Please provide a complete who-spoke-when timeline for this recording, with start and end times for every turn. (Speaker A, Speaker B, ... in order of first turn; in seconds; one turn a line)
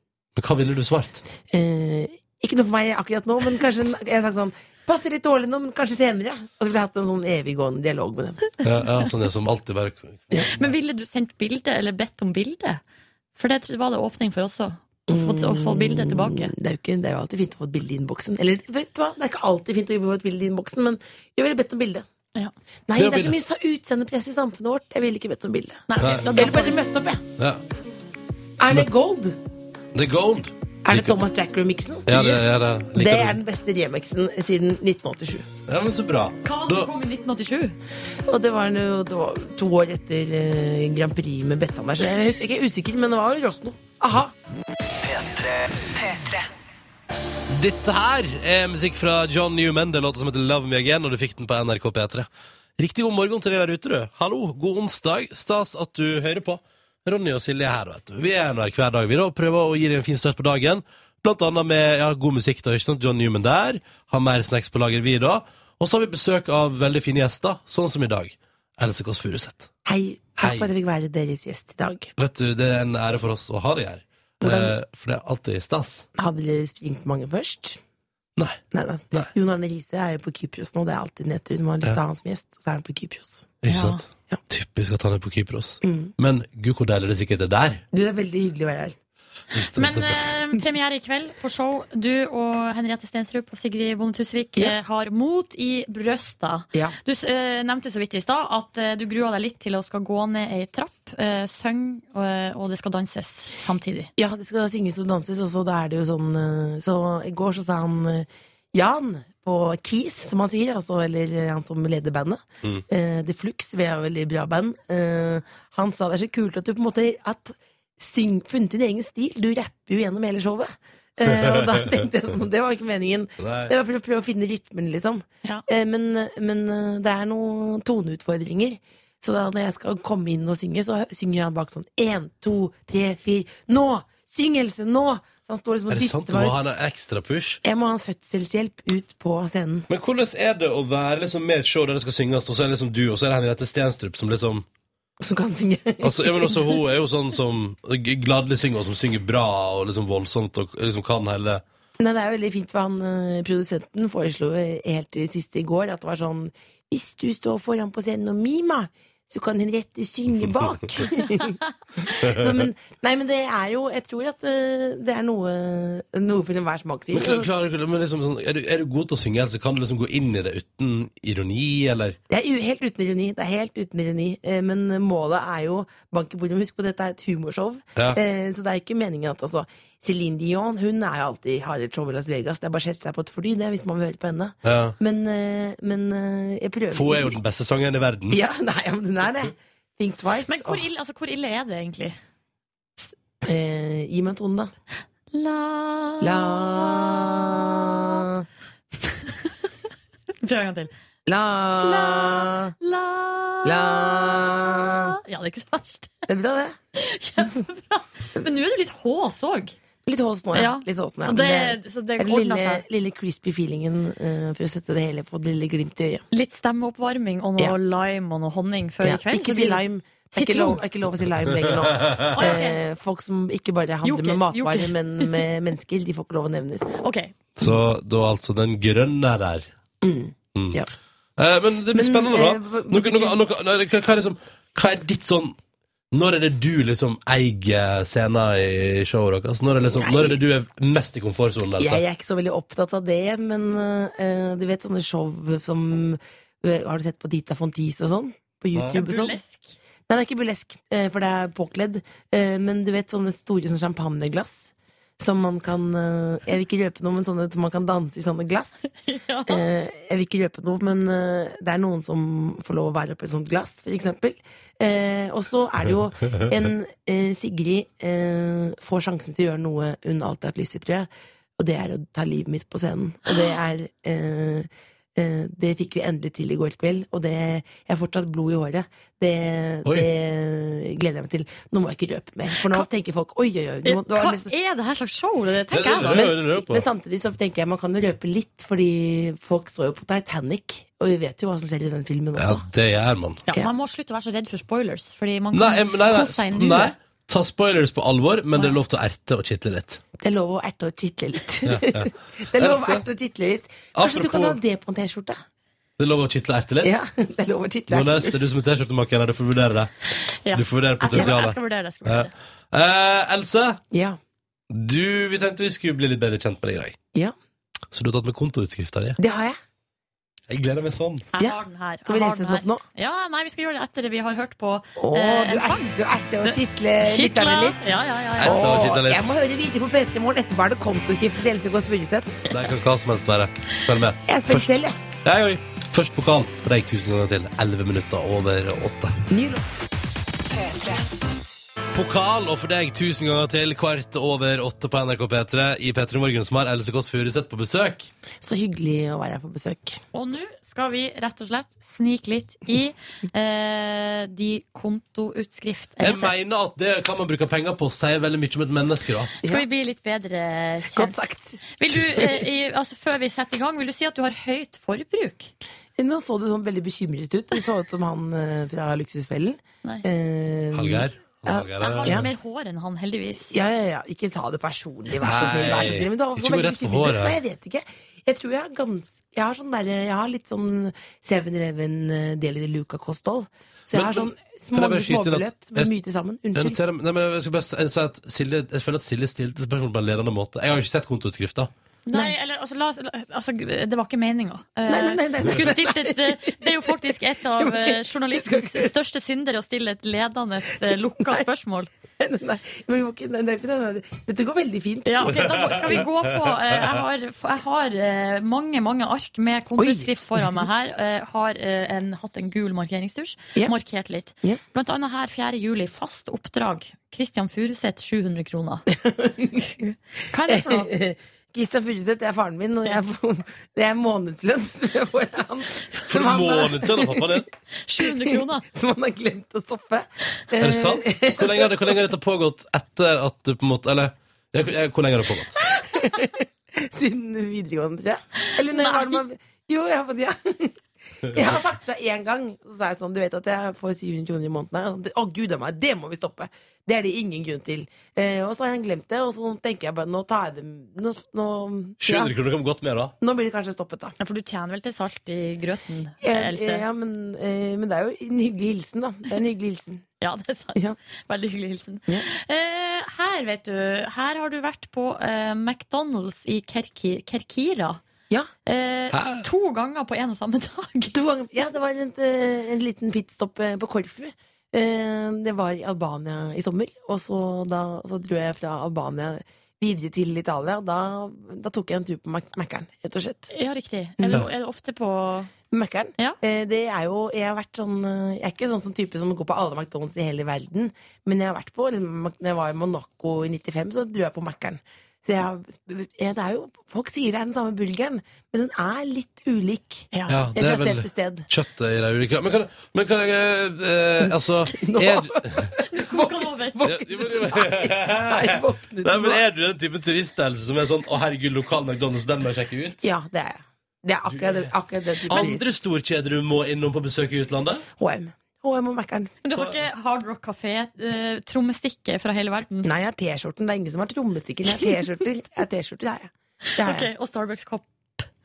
Speaker A: 0.4-1.2
Speaker B: 1.5-8.6
Speaker A: 8.6-10.7
Speaker C: 10.4-12.8
Speaker C: 13.4-16.5
Speaker B: 15.1-22.1
Speaker B: 22.9-27.2
Speaker A: 23.0-23.3
Speaker C: 25.9-26.8
Speaker A: 26.0-26.4
Speaker B: 28.6-29.4
Speaker A: 29.9-31.2
Speaker B: 30.9-32.4
Speaker A: 32.1-33.4
Speaker B: 32.9-35.5
Speaker A: 35.7-36.9
Speaker C: 36.4-37.8
Speaker B: 38.3-44.3
Speaker A: 47.5-69.7
Speaker B: 69.8-72.1
Speaker A: 70.4-70.7
Speaker A: 72.2-76.1
Speaker B: 74.4-74.8
Speaker B: 76.2-77.8
Speaker B: 78.7-83.6
Speaker A: 83.6-87.8
Speaker C: 83.7-84.0
Speaker B: 85.8-86.1
Speaker B: 87.9-89.0
Speaker A: 89.5-90.2
Speaker C: 89.8-104.1
Speaker B: 104.2-136.6
Speaker A: 121.3-121.6
Speaker A: 123.4-123.7
Speaker A: 135.9-137.6
Speaker B: 137.6-139.9
Speaker A: 139.9-144.7
Speaker B: 145.2-146.7
Speaker A: 146.0-151.6
Speaker B: 152.0-167.5
Speaker A: 162.2-162.5
Speaker A: 167.1-172.2
Speaker B: 172.3-187.3
Speaker A: 184.6-185.0
Speaker A: 186.9-188.4
Speaker B: 188.3-190.8
Speaker C: 190.5-192.2
Speaker B: 193.4-194.7
Speaker C: 195.3-198.1
Speaker B: 196.2-198.4
Speaker C: 199.1-199.5
Speaker C: 200.4-200.9
Speaker B: 201.3-202.7
Speaker C: 201.8-206.1
Speaker B: 203.7-205.1
Speaker B: 206.3-206.8
Speaker C: 206.9-209.8
Speaker B: 210.1-216.2
Speaker C: 210.5-212.8
Speaker C: 216.3-219.8
Speaker B: 219.0-227.0
Speaker C: 220.3-220.8
Speaker C: 222.3-222.8
Speaker C: 224.0-225.4
Speaker C: 227.0-227.3
Speaker A: 227.6-229.7
Speaker B: 230.0-230.9
Speaker A: 230.6-230.8
Speaker A: 231.4-235.6
Speaker B: 231.9-233.4
Speaker A: 236.1-242.0
Speaker B: 239.9-240.4
Speaker B: 241.8-249.4
Speaker C: 248.9-249.8
Speaker B: 250.1-258.9
Speaker C: 259.0-259.6
Speaker B: 259.5-284.5
Speaker C: 282.6-282.9
Speaker C: 283.9-286.4
Speaker A: 285.7-286.9
Speaker B: 286.1-292.6
Speaker A: 292.4-293.4
Speaker C: 293.5-296.9
Speaker A: 295.5-300.0
Speaker B: 300.2-305.4
Speaker A: 301.7-303.0
Speaker A: 303.9-304.6
Speaker A: 306.0-306.9
Speaker B: 306.8-308.4
Speaker A: 307.9-309.9
Speaker C: 310.4-312.3
Speaker A: 310.5-313.8
Speaker B: 311.1-311.4
Speaker B: 313.9-314.2
Speaker A: 314.7-317.0
Speaker A: 317.9-319.2
Speaker B: 319.2-319.6
Speaker A: 320.5-321.3
Speaker C: 321.3-325.9
Speaker B: 321.4-322.8
Speaker B: 325.0-327.8
Speaker C: 326.4-329.0
Speaker A: 328.4-329.4
Speaker B: 328.4-332.4
Speaker A: 332.5-339.2
Speaker B: 334.3-335.0
Speaker B: 339.3-339.7
Speaker A: 341.9-348.1
Speaker B: 348.4-350.0
Speaker C: 350.1-356.3
Speaker A: 356.0-359.4
Speaker C: 359.4-361.2
Speaker B: 360.9-362.4
Speaker C: 361.8-365.5
Speaker A: 361.9-362.3
Speaker B: 366.0-372.3
Speaker A: 370.7-372.3
Speaker C: 371.8-373.5
Speaker B: 373.4-386.8
Speaker A: 375.2-377.4
Speaker A: 383.9-385.9
Speaker A: 386.6-391.7
Speaker C: 392.1-401.9
Speaker B: 394.9-396.9
Speaker B: 397.6-398.9
Speaker B: 402.2-405.4
Speaker C: 405.1-418.9
Speaker A: 405.2-407.0
Speaker B: 409.8-410.6
Speaker B: 418.9-419.7
Speaker C: 419.7-420.9
Speaker B: 420.5-427.4
Speaker A: 426.1-427.5
Speaker C: 427.9-428.6
Speaker B: 428.1-431.9
Speaker A: 430.6-435.6
Speaker B: 435.7-440.7
Speaker C: 438.7-439.2
Speaker B: 441.2-452.4
Speaker A: 452.0-453.1
Speaker B: 453.2-454.1
Speaker C: 454.2-456.8
Speaker B: 456.2-460.1
Speaker C: 460.2-468.0
Speaker C: 468.7-471.2
Speaker A: 469.1-469.5
Speaker B: 471.1-483.5
Speaker C: 483.5-485.5
Speaker B: 485.7-501.5
Speaker C: 500.1-500.5
Speaker A: 500.3-505.7
Speaker B: 504.2-509.4
Speaker C: 505.9-506.8
Speaker A: 506.8-513.0
Speaker B: 513.0-515.6
Speaker A: 514.3-514.7
Speaker A: 515.3-517.9
Speaker B: 518.0-519.4
Speaker C: 519.4-522.9
Speaker B: 522.8-527.1
Speaker C: 526.8-528.3